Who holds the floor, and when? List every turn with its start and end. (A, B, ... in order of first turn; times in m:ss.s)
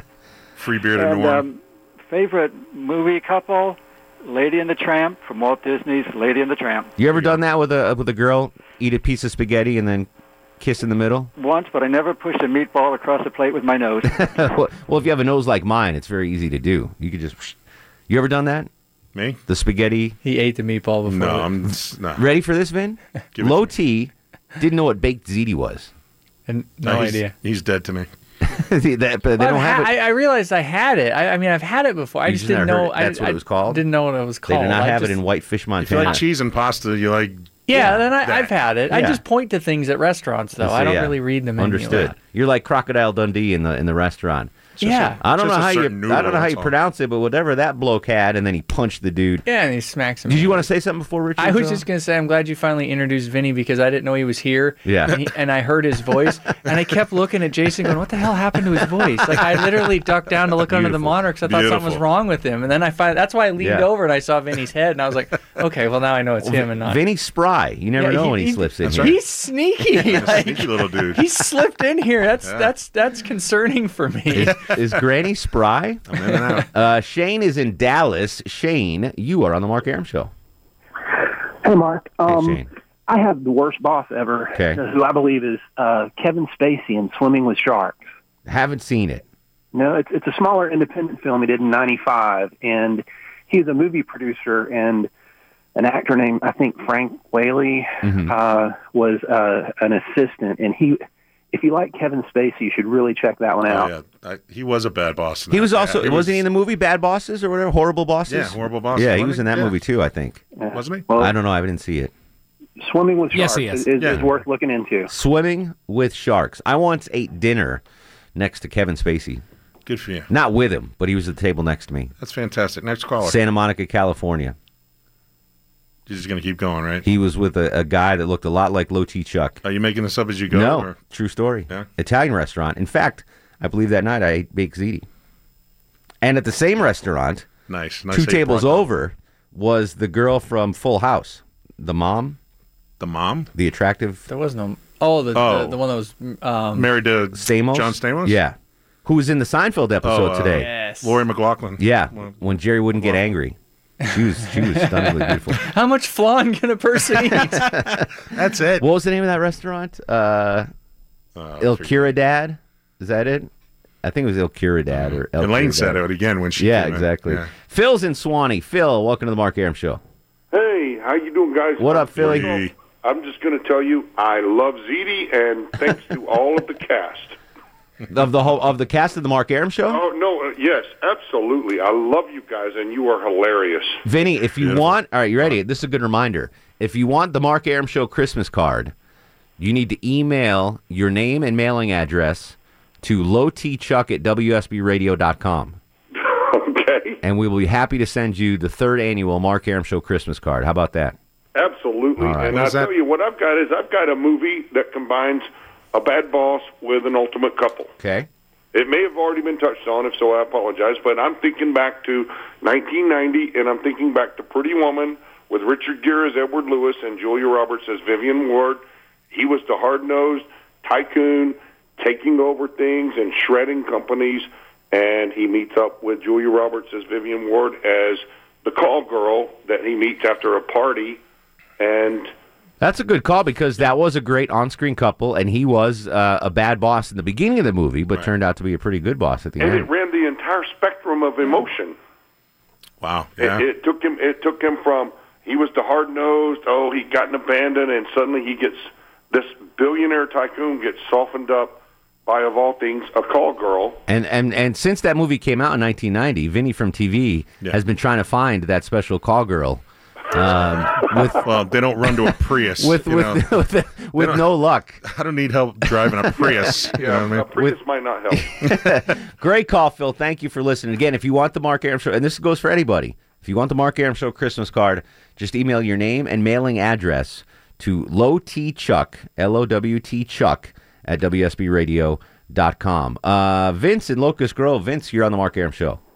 0:00.6-0:01.4 A
0:00.9-0:07.0 B
0:07.0-0:10.1 C
0:07.1-0:07.4 A
0:10.6-0:11.3 C
0:11.4-0:14.3 B
0:14.0-0:17.5 C
0:18.1-0:18.7 C
0:19.1-0:19.4 A
0:19.5-0:20.2 C
0:20.2-0:21.5 D
0:21.0-0:22.2 A
0:22.2-0:25.9 C
0:23.4-0:23.7 A
0:26.5-0:27.3 D
0:26.8-0:28.1 A
0:28.4-0:29.9 C
0:29.4-0:35.2 D
0:32.2-0:33.8 C
0:34.5-0:36.2 C
0:35.8-0:37.6 A
0:37.7-0:42.1 D
0:37.7-0:38.0 C
0:38.9-0:39.2 C
0:40.6-0:44.5 C
0:44.8-0:46.7 A
0:44.8-0:45.2 D
0:45.2-0:49.4 C
0:49.4-0:50.7 D
0:50.2-0:51.8 C
0:51.4-1:07.0 D
0:54.8-0:55.2 C
1:00.6-1:02.0 A
1:03.6-1:03.8 C
1:06.4-1:09.1 C
1:08.0-1:14.6 D
1:08.8-1:09.2 A
1:09.9-1:11.2 A
1:12.4-1:12.7 A
1:14.3-1:16.0 C
1:16.1-1:16.7 A
1:16.7-1:20.3 C
1:21.6-1:28.0 E
1:22.2-1:22.7 C
1:24.5-1:24.8 C
1:28.4-1:29.2 C
1:29.7-1:35.1 E
1:35.7-1:43.9 E
1:38.0-1:38.3 C
1:43.6-1:46.4 A
1:45.5-1:50.4 C
1:48.3-1:49.7 A
1:50.6-1:51.3 E
1:50.7-1:51.0 A
1:51.2-1:52.1 C
1:52.8-1:55.1 E
1:54.0-1:54.3 A
1:55.1-1:57.8 C
1:58.3-1:59.4 C
1:59.8-2:00.3 A
2:00.3-2:02.1 C
2:02.2-2:03.4 A
2:03.2-2:04.5 C
2:06.1-2:07.0 A
2:07.0-2:09.6 C
2:09.6-2:11.0 A
2:10.5-2:15.0 C
2:16.2-2:17.5 C
2:17.7-2:18.8 A
2:18.1-2:22.4 C
2:23.0-2:23.5 A
2:23.5-2:24.2 C
2:24.3-2:26.9 D
2:25.3-2:25.8 A
2:26.7-2:28.4 A
2:27.3-2:30.7 C
2:30.0-2:32.3 A
2:30.6-2:31.2 D
2:31.8-2:33.6 C
2:34.1-2:35.6 C
2:34.6-2:37.8 D
2:37.4-2:38.1 C
2:38.3-2:38.8 A
2:38.8-2:40.7 C
2:41.4-2:42.1 A
2:41.6-2:43.5 C
2:44.0-2:46.0 C
2:44.9-2:47.5 A
2:46.6-2:50.0 C
2:50.5-2:57.4 F
2:51.8-2:52.6 C
2:52.2-2:52.7 A
2:58.1-3:00.0 C
2:59.9-3:04.0 F
3:04.0-3:08.9 C
3:04.6-3:04.9 A
3:09.6-3:15.8 C
3:16.2-3:17.2 F
3:17.2-3:21.2 C
3:21.5-3:27.9 F
3:22.2-3:22.6 C
3:22.4-3:22.9 A
3:28.0-3:28.3 C
3:28.7-3:51.2 F
3:51.8-3:52.3 F
3:52.8-3:59.9 C
3:59.6-4:02.0 F
4:03.0-4:03.6 A
4:03.4-4:14.0 F
4:14.1-4:21.5 C
4:21.0-4:23.4 A
4:22.0-4:25.0 C
4:24.2-4:24.4 A
4:25.0-4:27.5 A
4:26.0-4:27.0 C
4:26.9-4:28.6 F
4:28.3-4:46.0 C